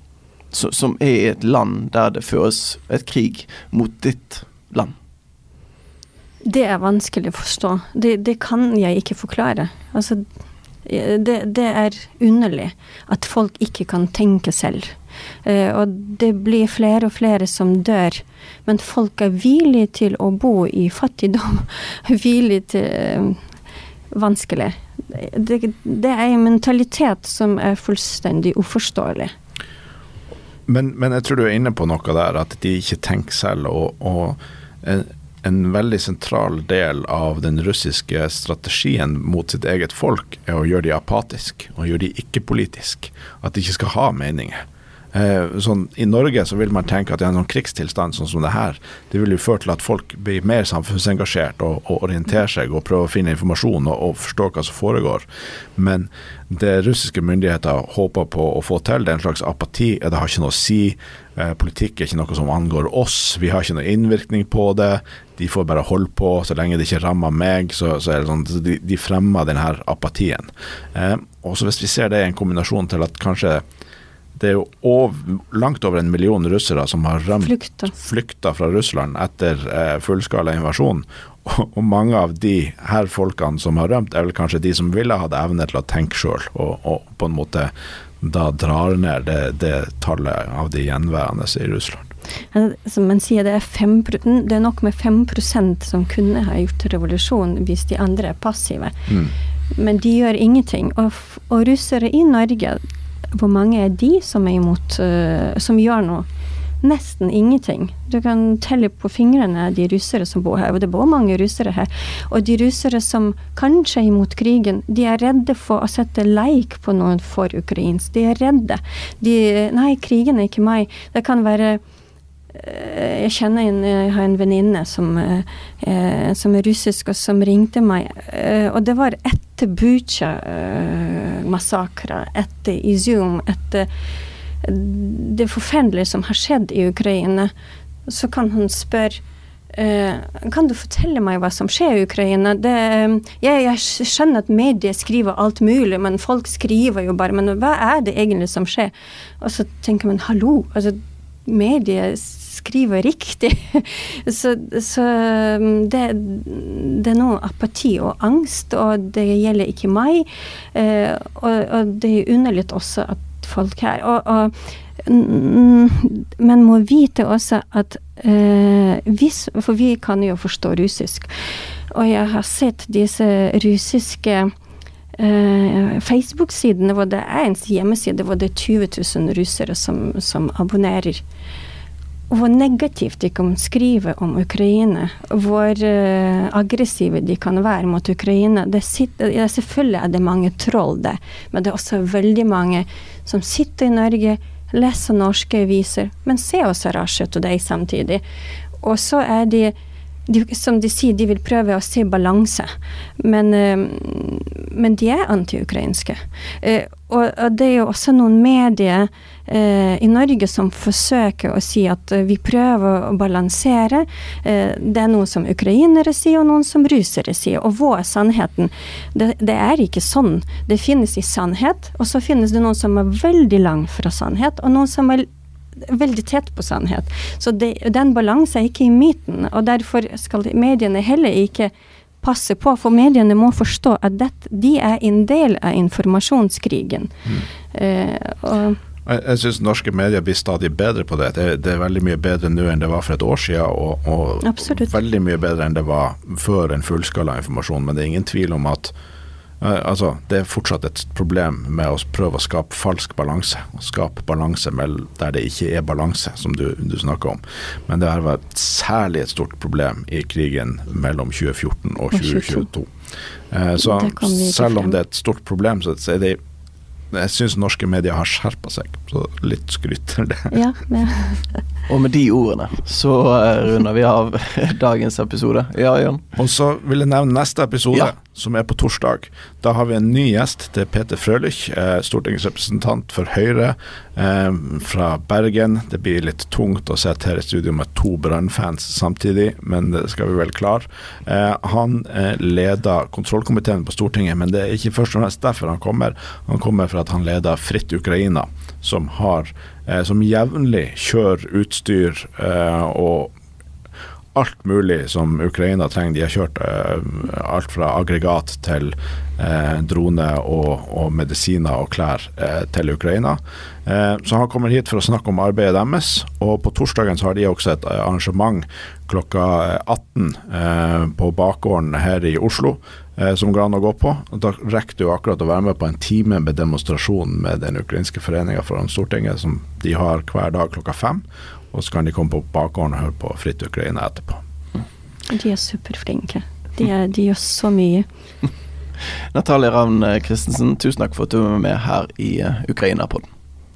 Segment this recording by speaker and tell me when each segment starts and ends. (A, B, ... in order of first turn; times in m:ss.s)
0:00.5-0:04.9 A
0:06.4-0:10.2 B
0:10.9-0:23.4 B
0:24.1-0:29.3 B
0:30.7-0:44.6 C
0:45.1-0:55.2 C
0:55.8-1:13.6 C
1:14.4-1:32.1 C
1:17.4-1:17.9 B
1:32.5-1:39.0 B
1:39.8-1:42.8 B
1:43.3-1:46.3 B
1:46.8-2:01.8 B
2:02.5-2:13.9 B
2:14.6-2:17.5 B
2:18.1-2:19.2 B
2:19.7-2:51.3 B
2:51.9-2:54.5 B
2:55.2-3:01.2 B
3:02.3-3:18.2 B
3:18.8-3:19.8 B
3:20.3-3:45.3 B
3:45.9-3:57.1 B
3:57.7-3:58.8 B
3:59.1-4:08.9 C
4:04.4-4:04.9 B
4:09.6-4:22.9 C
4:22.1-4:22.7 B
4:23.5-4:26.4 C
4:23.8-4:25.0 B
4:27.1-4:30.6 C
4:30.5-4:31.5 B
4:31.9-4:36.2 A
4:36.4-5:03.3 C
5:04.4-5:34.4 C
5:35.3-5:38.1 B
5:39.3-5:43.3 A